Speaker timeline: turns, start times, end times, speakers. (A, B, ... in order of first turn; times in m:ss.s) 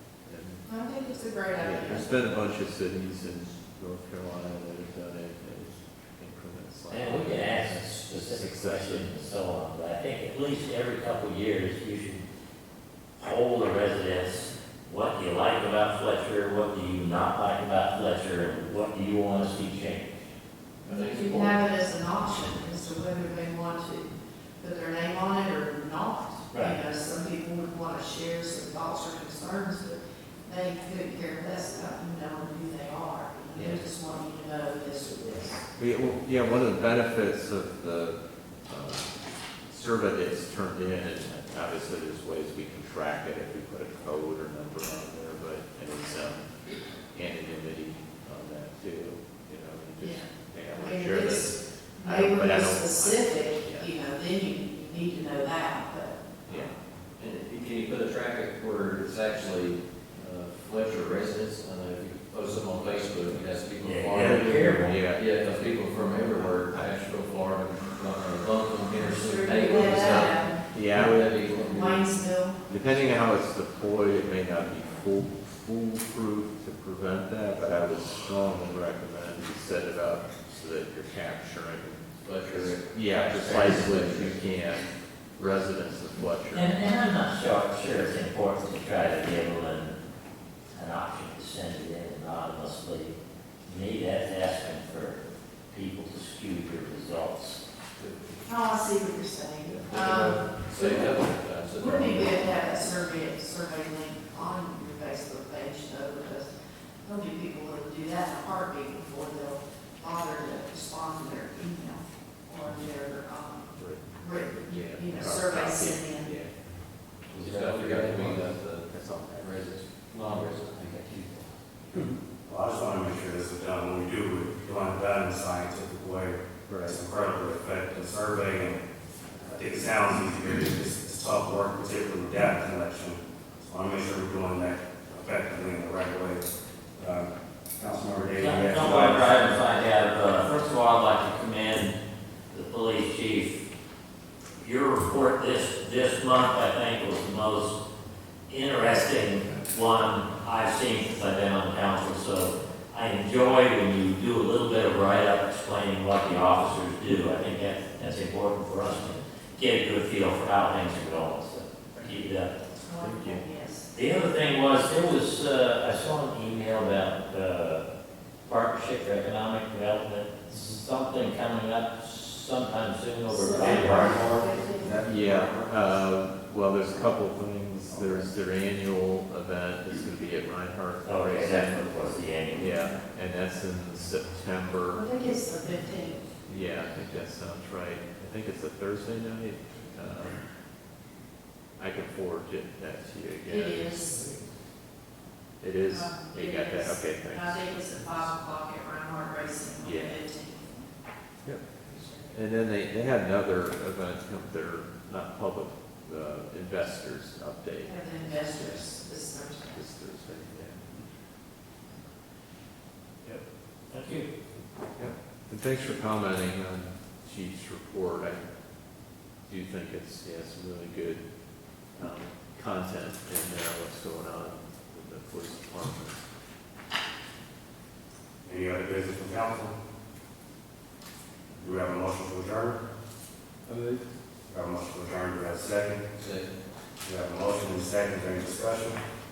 0:00.2-0:00.6 A
0:00.6-0:02.2 B
0:01.6-0:09.1 A
0:06.9-0:12.2 C
0:13.2-0:20.3 C
0:20.8-0:21.6 D
0:20.8-0:35.6 B
0:33.5-0:33.8 A
0:35.8-0:46.5 A
0:47.1-0:53.9 A
0:50.0-0:56.2 B
0:56.5-0:56.7 A
0:56.5-1:12.1 D
1:03.8-1:05.0 C
1:04.2-1:05.3 A
1:06.7-1:07.1 A
1:08.9-1:10.7 B
1:10.7-1:11.3 A
1:11.5-1:12.8 B
1:12.7-1:26.9 A
1:12.9-1:13.2 D
1:22.2-1:24.4 D
1:26.5-1:30.0 C
1:30.7-1:37.6 C
1:38.0-1:38.4 D
1:38.4-1:41.2 B
1:39.7-1:42.8 D
1:41.8-1:46.5 B
1:47.0-1:56.4 B
1:53.8-1:56.6 A
1:57.3-2:02.0 D
1:57.3-1:59.6 A
2:02.4-2:08.8 E
2:06.7-2:07.0 A
2:09.4-2:19.4 E
2:18.3-2:22.0 C
2:22.5-2:23.6 C
2:24.6-2:27.8 C
2:28.5-2:42.5 C
2:42.8-2:43.9 B
2:43.0-2:43.4 A
2:43.9-2:47.8 C
2:48.4-2:54.2 C
2:50.5-2:50.8 A
2:53.3-2:55.0 B
2:53.5-2:55.9 E
2:55.0-3:05.0 A
2:57.9-2:58.2 E
3:01.0-3:02.9 C
3:04.9-3:06.3 B
3:06.4-3:10.4 A
3:11.8-3:14.3 A
3:13.4-3:14.2 B
3:15.6-3:18.2 A
3:15.9-3:20.9 B
3:19.8-3:20.2 A
3:21.7-3:22.3 B
3:22.3-3:28.8 A
3:27.8-3:29.9 B
3:29.7-3:31.0 A
3:33.2-3:34.3 C
3:35.0-3:38.4 A
3:39.4-3:41.2 A
3:41.9-3:46.2 A
3:48.4-3:49.7 E
3:51.6-3:52.8 E
3:54.5-3:56.1 E
3:56.1-3:56.5 D
3:57.0-3:59.0 E